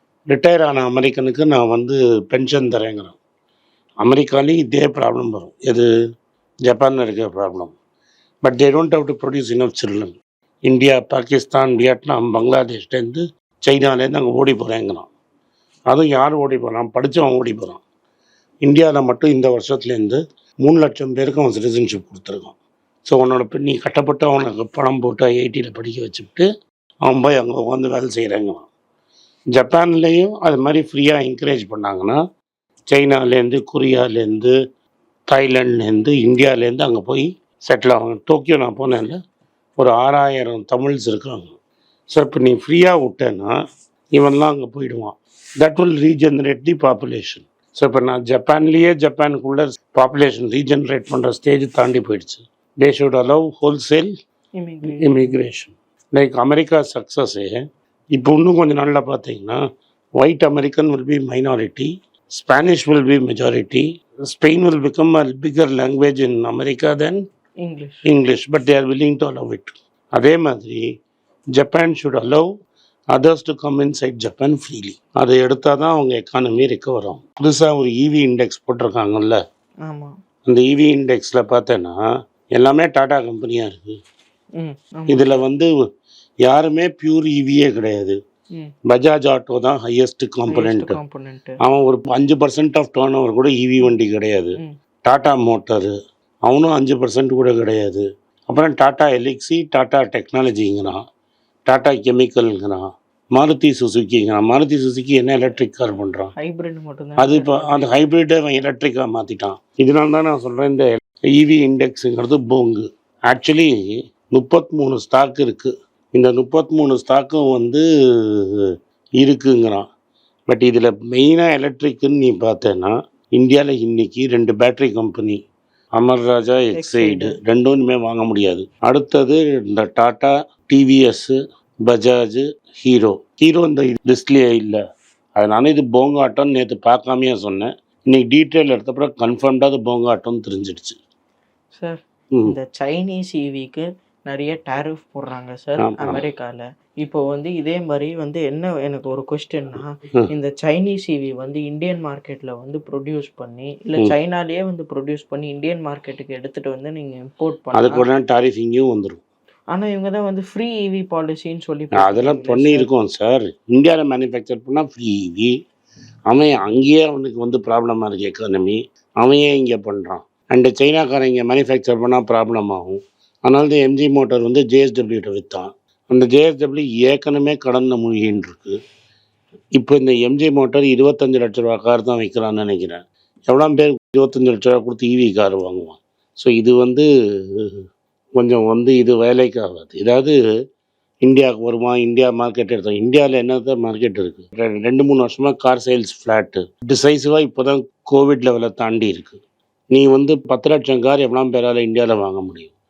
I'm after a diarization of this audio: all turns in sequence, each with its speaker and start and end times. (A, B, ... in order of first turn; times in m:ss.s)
0:00.3-0:03.2 A
0:04.0-0:05.9 A
0:06.7-0:07.7 A
0:08.4-0:15.1 A
0:15.9-0:17.8 A
0:18.7-0:26.5 A
0:27.1-0:28.7 A
0:29.6-0:32.2 A
0:32.9-0:34.5 A
0:35.3-0:39.2 A
0:39.8-0:41.5 A
0:42.1-0:43.5 A
0:44.2-0:54.1 A
0:54.6-0:55.4 B
0:54.8-0:59.6 A
1:00.2-1:07.2 A
1:07.6-1:08.0 B
1:08.0-1:10.8 A
1:11.6-1:12.5 A
1:13.1-1:19.4 A
1:19.9-1:20.2 B
1:20.5-1:22.0 A
1:22.6-1:24.0 A
1:24.6-1:25.4 B
1:25.1-1:25.7 A
1:26.4-1:28.2 A
1:28.9-1:31.0 A
1:30.5-1:31.6 B
1:31.6-1:35.9 A
1:36.5-1:41.0 A
1:41.7-1:46.3 A
1:46.4-1:47.8 B
1:47.2-1:58.7 A
1:59.2-1:59.9 A
2:00.5-2:05.4 A
2:06.0-2:14.8 A
2:06.7-2:07.4 B
2:15.4-2:21.0 A
2:21.7-2:38.0 B
2:25.8-2:26.2 A
2:37.7-2:39.2 A
2:39.7-2:42.9 B
2:42.0-2:45.6 A
2:46.3-2:58.8 A
2:59.8-3:07.7 A
3:08.4-3:10.4 A
3:11.2-3:19.4 A
3:19.9-3:22.7 A